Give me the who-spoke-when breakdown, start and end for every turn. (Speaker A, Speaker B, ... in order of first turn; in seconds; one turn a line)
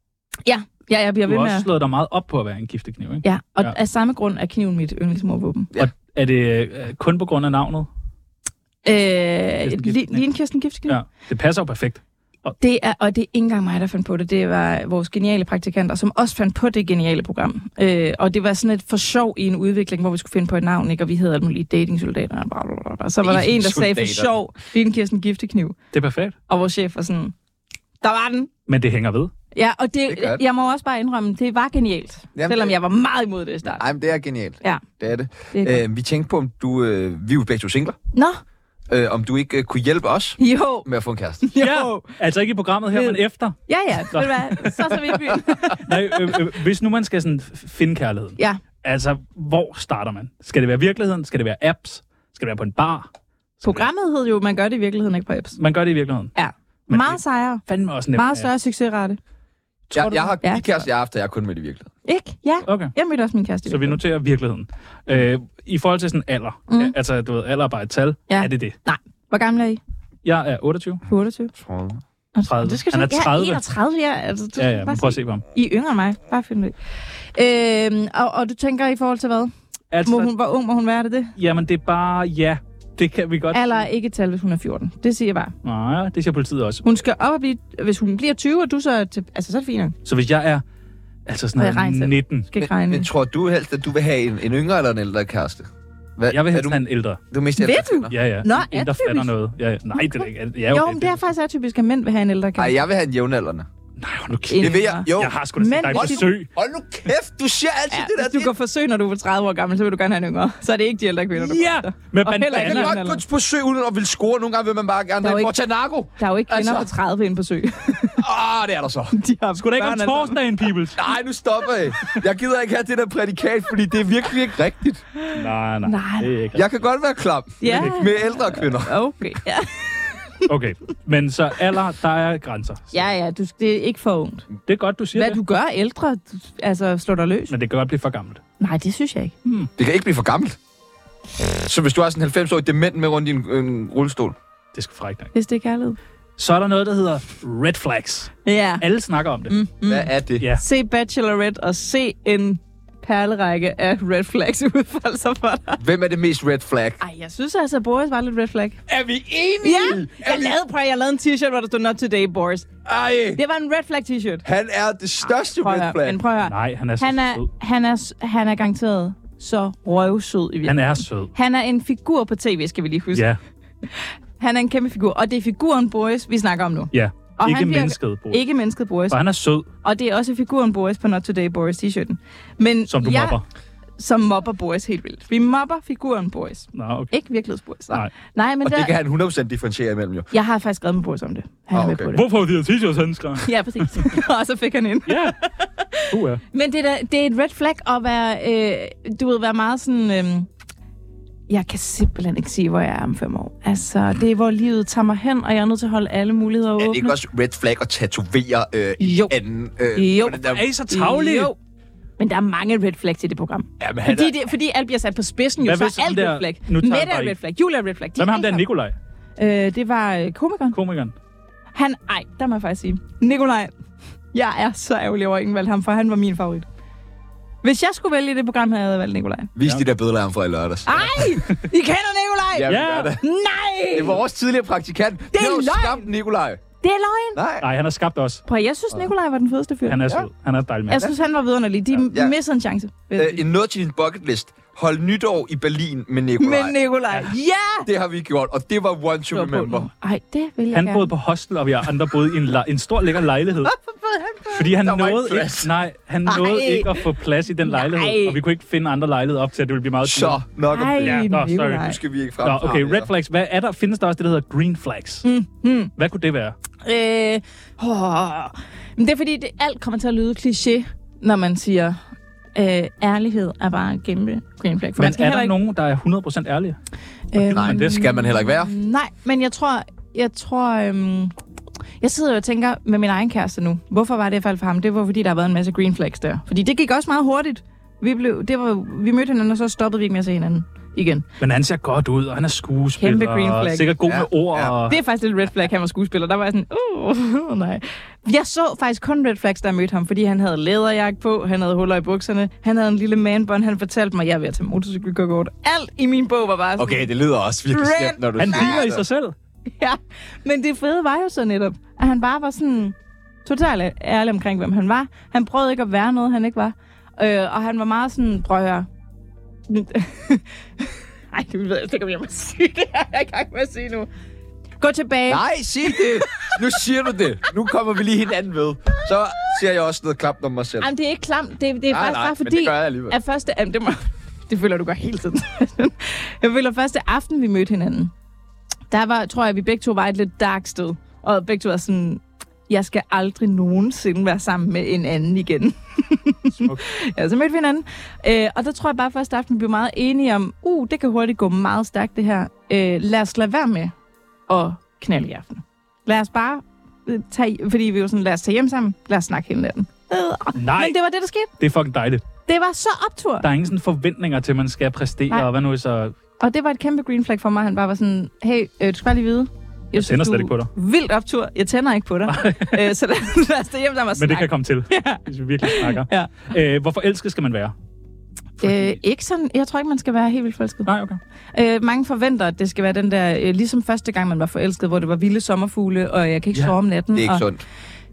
Speaker A: 0.4-1.7
Speaker B: 1.2-3.8
Speaker A: 3.2-5.7
Speaker B: 5.8-7.9
Speaker A: 8.8-10.9
Speaker B: 9.6-10.2
Speaker B: 10.9-12.5
Speaker A: 12.6-25.8
Speaker C: 23.2-24.3
Speaker B: 25.9-26.3
Speaker A: 26.5-27.3
Speaker A: 28.0-28.5
Speaker B: 28.7-29.3
Speaker A: 29.5-33.8
Speaker C: 30.1-30.4
Speaker C: 32.3-32.8
Speaker C: 33.7-38.0
Speaker A: 35.5-35.8
Speaker A: 38.1-38.4
Speaker C: 38.9-41.5
Speaker A: 40.4-40.9
Speaker A: 41.4-42.1
Speaker B: 41.6-45.1
Speaker A: 42.9-46.3
Speaker B: 45.8-53.1
Speaker A: 53.6-55.6
Speaker B: 55.6-56.3
Speaker A: 56.3-59.2
Speaker B: 56.9-58.5
Speaker C: 59.9-61.9
Speaker A: 60.0-60.8
Speaker A: 62.0-64.0
Speaker B: 62.7-62.9
Speaker B: 63.7-68.8
Speaker A: 66.7-66.9
Speaker A: 68.3-69.8
Speaker B: 70.2-71.0
Speaker A: 71.1-71.5
Speaker C: 71.5-72.0
Speaker A: 72.3-76.7
Speaker B: 72.5-73.6
Speaker B: 74.6-75.4
Speaker A: 77.3-79.5
Speaker B: 79.9-80.3
Speaker A: 80.0-81.3
Speaker B: 81.4-83.8
Speaker A: 83.5-85.5
Speaker B: 85.6-86.8
Speaker A: 86.8-89.9
Speaker B: 90.0-90.6
Speaker B: 91.3-92.5
Speaker A: 91.6-93.1
Speaker C: 92.6-98.1
Speaker B: 96.3-97.2
Speaker A: 97.6-99.3
Speaker B: 98.1-101.2
Speaker A: 100.0-102.8
Speaker C: 102.6-103.7
Speaker B: 104.0-106.5
Speaker A: 104.5-106.3
Speaker C: 104.6-108.5
Speaker A: 107.9-113.2
Speaker B: 111.3-112.9
Speaker C: 112.5-116.9
Speaker A: 115.2-115.5
Speaker A: 116.2-118.2
Speaker C: 118.2-119.2
Speaker A: 119.1-120.4
Speaker B: 119.5-121.0
Speaker C: 120.9-125.0
Speaker A: 125.2-126.3
Speaker B: 125.3-126.7
Speaker C: 126.5-128.9
Speaker A: 127.6-130.5
Speaker B: 130.5-132.9
Speaker A: 132.9-134.5
Speaker B: 134.7-135.4
Speaker A: 135.1-137.5
Speaker B: 137.5-138.4
Speaker A: 138.6-139.4
Speaker C: 139.8-140.6
Speaker C: 141.6-144.3
Speaker B: 144.7-145.3
Speaker A: 145.3-146.0
Speaker B: 146.4-149.5
Speaker A: 148.4-148.8
Speaker A: 149.5-155.8
Speaker C: 149.9-150.5
Speaker C: 155.8-157.0
Speaker A: 157.0-158.8
Speaker C: 158.9-160.5
Speaker A: 159.6-162.7
Speaker C: 162.8-163.4
Speaker A: 163.3-164.4
Speaker C: 164.4-166.2
Speaker A: 165.3-173.2
Speaker B: 166.4-167.5
Speaker B: 170.7-171.3
Speaker B: 173.1-173.4
Speaker A: 173.9-179.2
Speaker B: 176.9-178.4
Speaker B: 179.1-179.7
Speaker A: 179.8-183.4
Speaker B: 182.9-183.4
Speaker A: 184.0-188.9
Speaker B: 186.7-187.1
Speaker C: 188.6-190.3
Speaker A: 190.3-192.2
Speaker C: 191.7-192.1
Speaker B: 192.1-194.2
Speaker A: 193.4-200.5
Speaker B: 195.1-195.4
Speaker B: 196.1-196.4
Speaker A: 201.5-207.2
Speaker C: 206.8-210.7
Speaker A: 209.0-209.3
Speaker A: 209.9-211.6
Speaker B: 210.3-211.5
Speaker A: 212.2-218.6
Speaker C: 213.8-214.3
Speaker B: 215.6-217.3
Speaker B: 218.2-218.9
Speaker A: 219.4-220.8
Speaker B: 220.7-221.1
Speaker A: 221.7-223.7
Speaker A: 224.3-226.7
Speaker A: 227.6-229.5
Speaker C: 229.6-231.2
Speaker A: 230.8-234.2
Speaker C: 232.5-233.2
Speaker B: 232.7-233.1
Speaker C: 233.9-236.6
Speaker A: 235.3-236.1
Speaker A: 236.8-237.4
Speaker C: 237.3-237.7
Speaker B: 237.6-238.4
Speaker A: 238.4-240.0
Speaker B: 239.8-241.1
Speaker A: 240.9-243.4
Speaker C: 242.1-242.3
Speaker C: 243.1-246.8
Speaker A: 246.4-247.9
Speaker C: 247.8-249.9
Speaker A: 249.3-251.1
Speaker B: 250.7-253.7
Speaker A: 253.8-254.5
Speaker B: 254.5-260.4
Speaker C: 254.7-255.7
Speaker A: 256.3-257.0
Speaker A: 257.6-258.4
Speaker C: 260.0-263.1
Speaker A: 260.7-262.0
Speaker B: 261.0-265.3
Speaker A: 265.2-265.9
Speaker B: 266.0-266.5
Speaker A: 266.8-272.0
Speaker A: 272.5-275.5
Speaker B: 275.0-276.8
Speaker A: 277.3-281.3
Speaker B: 277.4-278.0
Speaker C: 277.5-278.7
Speaker A: 282.0-291.2
Speaker B: 291.4-295.0
Speaker A: 293.0-293.9
Speaker C: 294.1-294.7
Speaker A: 294.9-307.1
Speaker C: 306.8-309.0
Speaker A: 307.7-308.8
Speaker B: 308.4-309.3
Speaker A: 309.8-318.9
Speaker A: 319.7-324.1
Speaker A: 324.8-326.5
Speaker C: 325.3-330.9
Speaker A: 330.8-338.1
Speaker C: 331.9-333.2
Speaker A: 338.9-353.9
Speaker A: 354.5-361.5
Speaker B: 360.6-361.0
Speaker B: 361.6-362.2
Speaker A: 362.4-363.4
Speaker B: 363.4-366.1
Speaker A: 366.4-376.3
Speaker B: 369.9-370.7
Speaker B: 372.3-372.9
Speaker B: 374.1-377.7
Speaker A: 378.6-380.9
Speaker B: 378.6-379.0
Speaker B: 380.9-381.2
Speaker A: 381.5-387.4
Speaker C: 387.1-387.6